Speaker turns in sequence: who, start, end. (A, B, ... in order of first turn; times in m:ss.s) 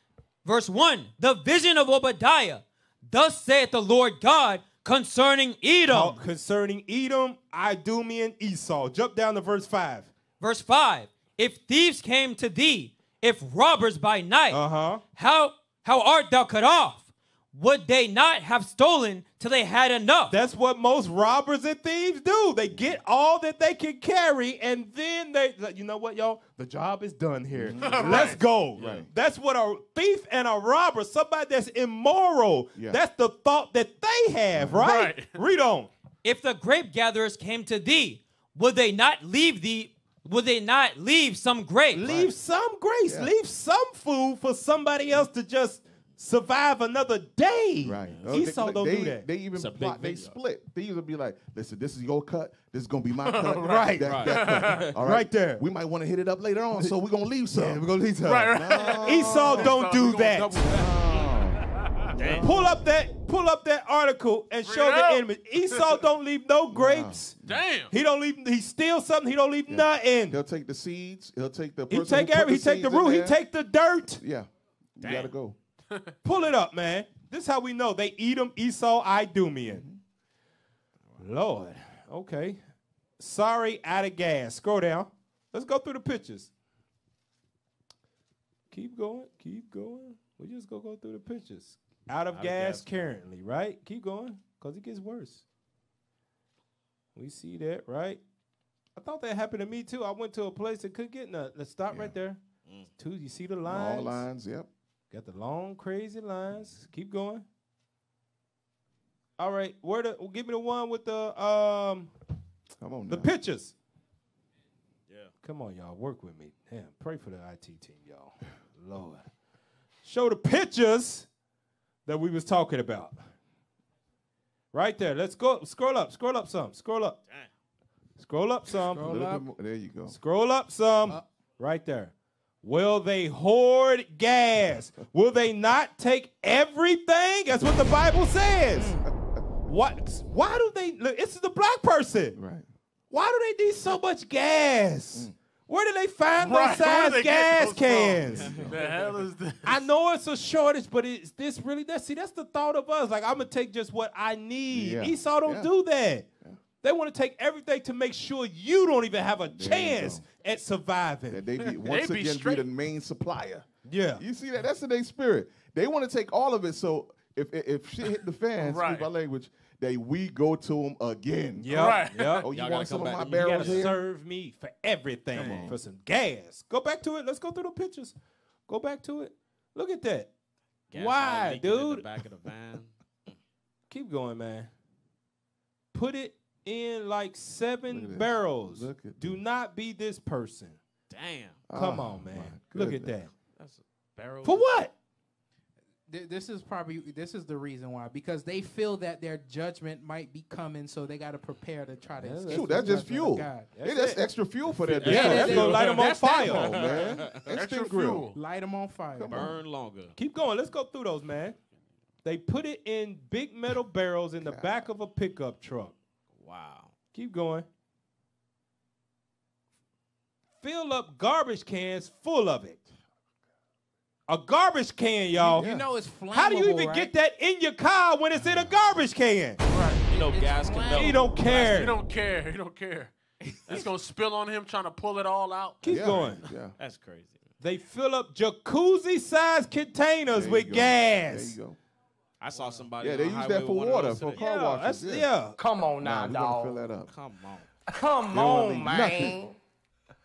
0:00.4-0:06.2 A
0:05.9-0:10.1 B
0:10.4-0:14.6 A
0:14.5-0:15.0 B
0:15.2-0:20.3 A
0:20.3-0:35.9 B
0:27.5-0:29.1 C
0:27.8-0:28.4 D
0:28.8-0:29.1 E
0:34.5-0:34.8 C
0:34.8-0:35.3 D
0:36.2-0:42.0 A
0:41.9-0:49.2 B
0:42.0-0:42.3 C
0:43.0-0:43.3 C
0:47.8-0:57.8 C
0:48.1-0:48.5 E
0:49.5-0:50.4 E
0:53.2-0:54.8 D
0:53.6-0:55.6 B
0:54.0-0:54.9 E
0:57.5-1:00.6 B
0:58.2-1:02.2 D
0:58.4-0:59.9 C
1:00.4-1:01.6 C
1:02.1-1:02.8 C
1:02.2-1:02.5 E
1:02.4-1:07.3 B
1:04.6-1:06.0 D
1:06.7-1:07.6 C
1:07.4-1:07.9 D
1:07.9-1:10.4 B
1:09.7-1:13.4 C
1:11.9-1:14.2 B
1:14.1-1:15.6 C
1:15.0-1:15.3 E
1:15.9-1:16.2 D
1:16.2-1:19.8 B
1:19.6-1:20.0 C
1:21.2-1:22.6 B
1:23.2-1:26.5 B
1:28.7-1:35.4 B
1:32.3-1:33.1 E
1:37.2-1:38.2 B
1:39.0-1:42.4 B
1:41.9-1:42.2 C
1:43.0-1:44.2 B
1:43.6-1:44.7 C
1:45.1-1:47.4 B
1:49.4-1:52.1 B
1:52.8-1:53.3 C
1:53.1-1:53.7 B
1:55.4-1:59.2 B
2:00.0-2:01.3 B
2:02.0-2:03.1 B
2:04.7-2:07.2 B
2:08.2-2:09.1 B
2:08.9-2:09.5 F
2:08.9-2:10.2 C
2:10.1-2:19.0 B
2:18.8-2:19.0 F
2:19.6-2:22.4 B
2:22.3-2:22.6 C
2:23.1-2:28.6 B
2:26.4-2:29.9 D
2:28.3-2:29.2 E
2:28.4-2:28.8 C
2:29.6-2:36.2 B
2:34.7-2:35.7 C
2:36.8-2:41.4 B
2:39.5-2:40.2 C
2:41.3-2:51.9 C
2:41.6-2:42.7 D
2:43.8-2:44.2 B
2:48.6-2:49.1 D
2:51.6-2:52.5 B
2:51.7-2:52.4 D
2:52.4-2:54.0 C
2:52.5-2:53.9 E
2:53.2-2:58.1 B
2:55.3-2:55.8 C
2:58.7-3:00.3 B
3:00.9-3:03.4 E
3:00.9-3:02.1 B
3:03.9-3:04.7 B
3:05.9-3:10.8 B
3:07.9-3:09.4 C
3:11.1-3:11.6 E
3:11.7-3:13.2 C
3:11.7-3:13.3 B
3:13.6-3:14.7 E
3:14.4-3:14.9 B
3:16.1-3:23.7 F
3:22.2-3:23.0 B
3:22.5-3:28.3 C
3:23.7-3:24.2 B
3:24.7-3:25.9 E
3:25.0-3:26.4 F
3:25.0-3:26.8 B
3:26.7-3:27.5 E
3:27.5-3:28.4 D
3:28.3-3:29.5 F
3:29.1-3:29.6 C
3:29.3-3:30.1 E
3:30.2-3:31.6 B
3:32.2-3:35.9 B
3:34.4-3:34.8 C
3:36.3-3:36.9 E
3:37.1-3:37.6 B
3:40.6-3:42.8 B
3:44.3-3:45.7 B
3:45.4-3:47.1 F
3:45.5-3:45.9 C
3:46.3-3:49.6 B
3:49.7-3:50.0 D
3:50.1-3:51.8 E
3:50.1-3:51.4 F
3:50.9-3:52.0 B
3:51.0-3:53.1 D
3:53.4-3:53.8 E
3:53.6-3:56.4 D
3:55.8-3:56.4 B
3:55.8-3:56.8 C
3:56.8-3:57.5 E
3:57.6-4:01.6 B
4:00.3-4:01.8 C
4:02.4-4:04.4 E
4:03.0-4:05.3 C
4:04.3-4:05.6 B
4:05.6-4:06.9 G
4:06.0-4:07.1 C
4:07.1-4:07.7 E
4:07.9-4:09.6 G
4:08.3-4:09.4 C